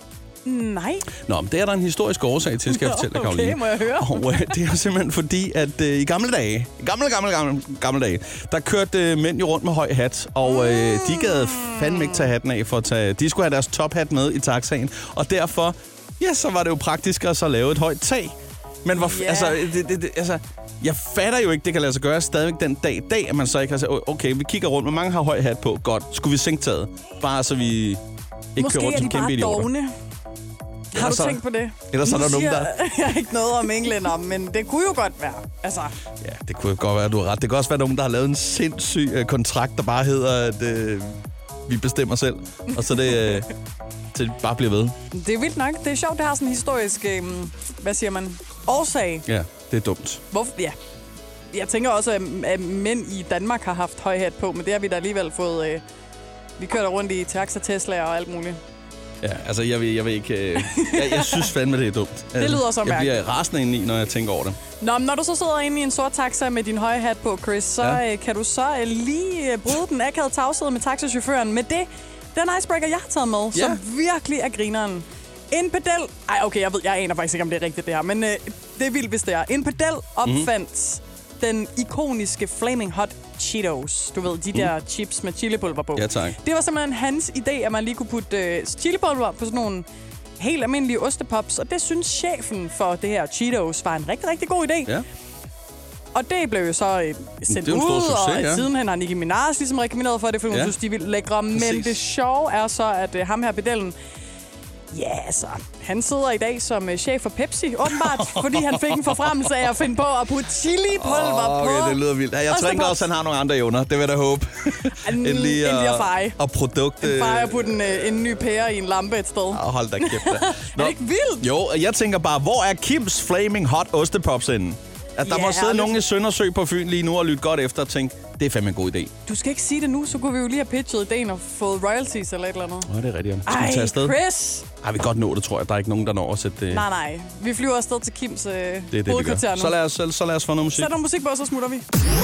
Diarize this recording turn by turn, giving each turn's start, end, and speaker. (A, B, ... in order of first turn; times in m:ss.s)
0:00.4-0:01.1 A
0:01.2-0:28.0 B
0:02.7-0:04.5 A
0:10.5-0:12.3 A
0:18.9-0:19.8 A
0:28.5-0:29.7 B
0:28.6-0:29.9 A
0:30.9-0:35.9 A
0:30.9-0:32.7 B
0:36.2-0:43.5 B
0:42.7-0:43.5 A
0:44.1-0:44.9 B
0:45.1-0:49.3 A
0:49.3-0:50.2 B
0:50.3-0:50.7 A
0:51.5-0:55.8 A
0:56.6-0:58.6 A
0:59.2-1:04.6 B
1:00.6-1:01.5 A
1:02.4-1:03.2 A
1:04.8-1:29.8 A
1:13.5-1:13.8 B
1:20.2-1:20.5 B
1:25.9-1:26.4 B
1:30.4-1:35.0 A
1:36.1-1:43.9 A
1:37.5-1:38.7 B
1:41.5-1:42.0 B
1:44.9-1:53.1 A
1:48.0-1:49.2 B
1:50.9-1:58.0 B
1:54.9-1:56.4 A
1:57.0-2:01.5 A
1:59.5-2:09.1 B
2:05.2-2:06.0 A
2:09.2-2:12.9 A
2:12.9-2:14.2 B
2:13.4-2:14.7 A
2:14.8-2:16.8 B
2:16.7-2:19.8 A
2:18.9-2:20.9 B
2:20.7-2:21.8 A